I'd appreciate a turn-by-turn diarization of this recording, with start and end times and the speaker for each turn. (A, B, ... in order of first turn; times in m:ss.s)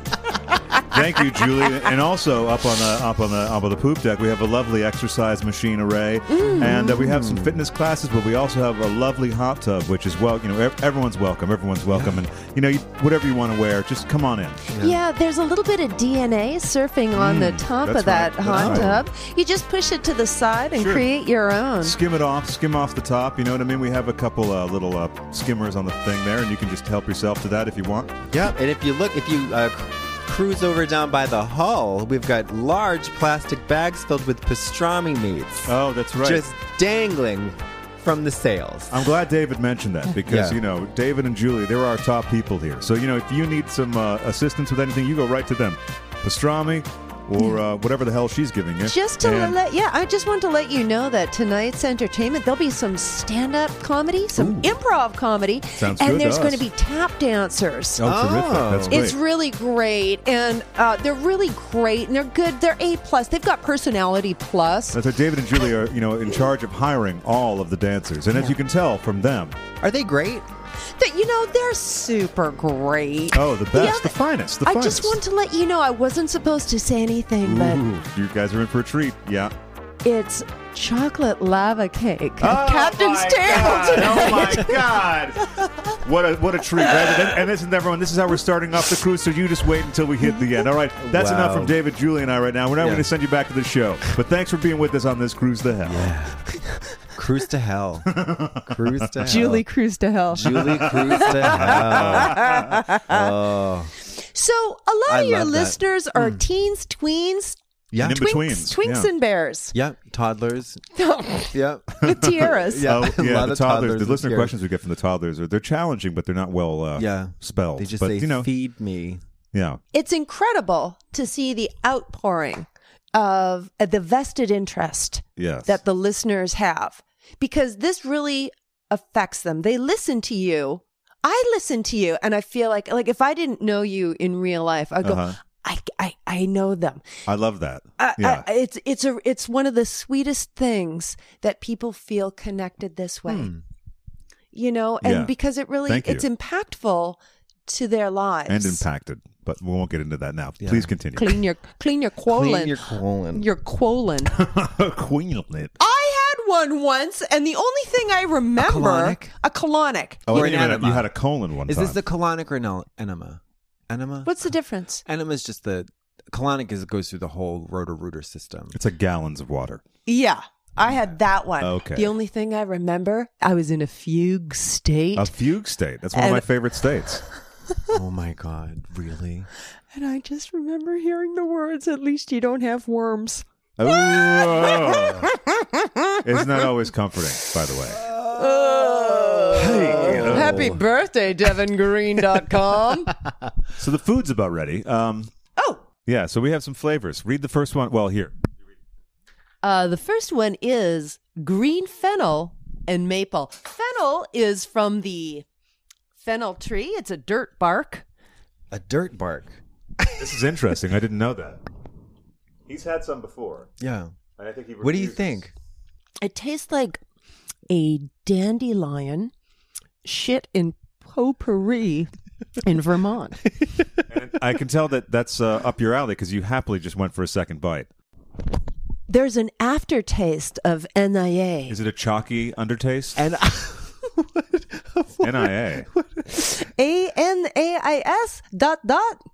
0:00.8-0:14.6 A
0:06.3-0:07.0 B
0:06.4-0:07.6 C
0:11.9-0:12.2 C
0:14.7-0:15.0 C
0:14.8-0:22.0 B
0:17.1-0:19.0 A
0:18.5-0:19.0 C
0:20.7-0:21.1 A
0:21.8-0:28.2 A
0:28.3-0:39.0 C
0:35.6-0:36.4 A
0:38.9-0:49.6 A
0:40.2-0:40.6 C
0:48.8-0:58.1 B
0:54.4-0:54.7 A
0:55.8-0:56.6 A
0:58.0-0:59.2 A
0:58.0-0:59.0 C
0:58.9-1:05.0 B
1:04.9-1:09.6 A
1:09.8-1:10.5 C
1:11.0-1:17.8 B
1:13.3-1:15.2 A
1:17.4-1:19.5 A
1:20.0-1:24.8 B
1:22.4-1:36.1 A
1:31.1-1:31.8 C
1:32.8-1:33.1 C
1:35.8-1:36.5 C
1:37.1-1:39.6 C
1:38.1-1:39.5 A
1:39.2-1:43.3 B
1:40.3-1:43.9 C
1:41.0-1:42.6 A
1:44.0-1:49.7 B
1:45.1-1:46.4 C
1:47.9-1:48.3 C
1:48.0-1:49.1 A
1:49.7-1:50.8 C
1:50.9-1:53.0 B
1:51.5-1:54.5 C
1:52.0-1:58.5 A
1:57.0-1:59.2 C
1:59.5-1:59.8 A
1:59.9-2:17.0 B
2:05.4-2:05.7 A
2:15.0-2:15.4 A
2:17.3-2:18.4 A
2:18.0-2:23.5 B
2:23.2-2:23.6 C
2:24.5-2:28.8 B
2:25.0-2:25.3 A
2:25.8-2:26.2 A
2:28.5-2:31.4 A
2:30.6-2:30.9 C
2:31.1-2:34.4 B
2:32.2-2:33.5 C
2:34.3-2:35.7 A
2:35.8-2:40.4 B
2:38.6-2:39.3 C
2:40.3-2:41.1 C
2:40.3-2:42.0 A
2:41.6-2:44.5 C
2:44.2-2:45.0 B
2:45.0-2:48.8 C
2:48.7-2:49.8 A
2:50.1-2:55.3 B
2:50.8-2:51.1 C
2:51.6-2:52.1 A
2:55.2-2:57.2 A
2:56.1-2:56.4 B
2:57.9-2:59.5 C
2:59.9-3:06.4 B
3:03.8-3:05.3 A
3:06.2-3:08.0 A
3:08.0-3:10.8 C
3:08.3-3:13.1 B
3:09.6-3:10.7 A
3:13.8-3:15.3 A
3:15.6-3:15.8 B
3:16.0-3:18.3 A
3:19.6-3:25.4 B
3:26.2-3:28.0 B
3:28.7-3:29.6 C
3:30.2-3:31.6 A
3:32.7-3:33.7 A
3:33.8-3:34.1 C
3:34.4-3:35.4 A
3:34.8-3:35.5 C
3:36.2-3:37.0 B
3:37.7-3:39.3 B
3:40.0-3:43.4 B
3:44.1-3:47.9 A
3:49.1-3:51.8 B
3:51.7-3:53.2 A
3:53.2-3:56.4 C
3:55.2-3:55.9 A
3:56.3-3:59.2 B